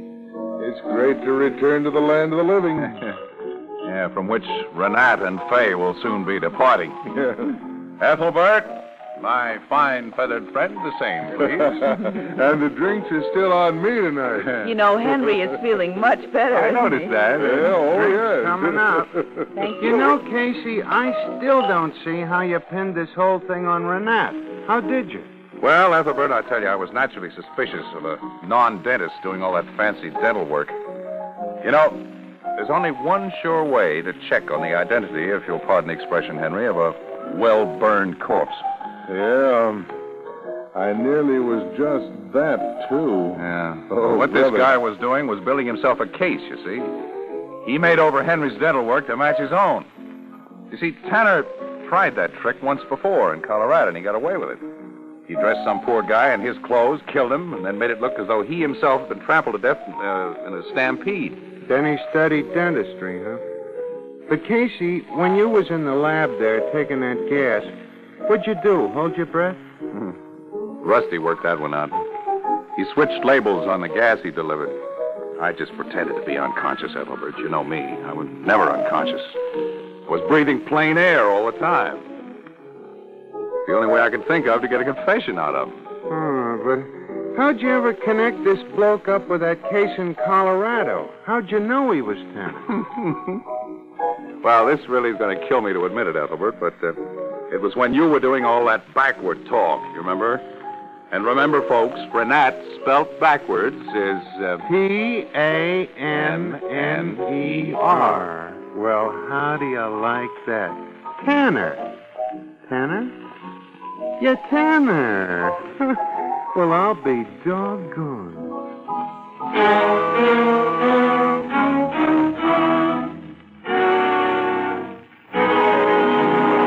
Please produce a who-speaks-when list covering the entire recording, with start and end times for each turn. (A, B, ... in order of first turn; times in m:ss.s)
0:00.6-0:03.0 A
0:02.8-0:03.2 B
0:03.8-0:07.0 B
0:08.0-0:12.2 B
0:11.6-0:14.6 A
0:14.6-0:17.1 C
0:16.5-0:17.9 B
0:17.3-0:19.5 A
0:17.8-0:19.1 D
0:19.5-0:20.2 C
0:19.8-0:25.3 D
0:25.6-0:30.7 B
0:31.6-0:38.6 B
0:39.1-0:39.9 A
0:40.7-0:44.8 A
0:43.4-0:47.0 B
0:47.6-0:49.9 B
0:50.7-0:54.6 B
0:55.3-1:01.4 B
1:01.7-1:03.4 D
1:04.3-1:09.6 D
1:09.9-1:10.2 B
1:10.8-1:12.0 B
1:12.8-1:14.8 B
1:15.4-1:19.4 B
1:20.1-1:22.0 B
1:23.7-1:25.8 B
1:26.1-1:32.8 D
1:32.8-1:33.4 B
1:34.4-1:40.4 B
1:41.1-1:44.7 B
1:44.7-1:51.9 D
1:46.1-1:48.3 B
1:52.7-1:53.2 D
1:54.2-1:58.6 D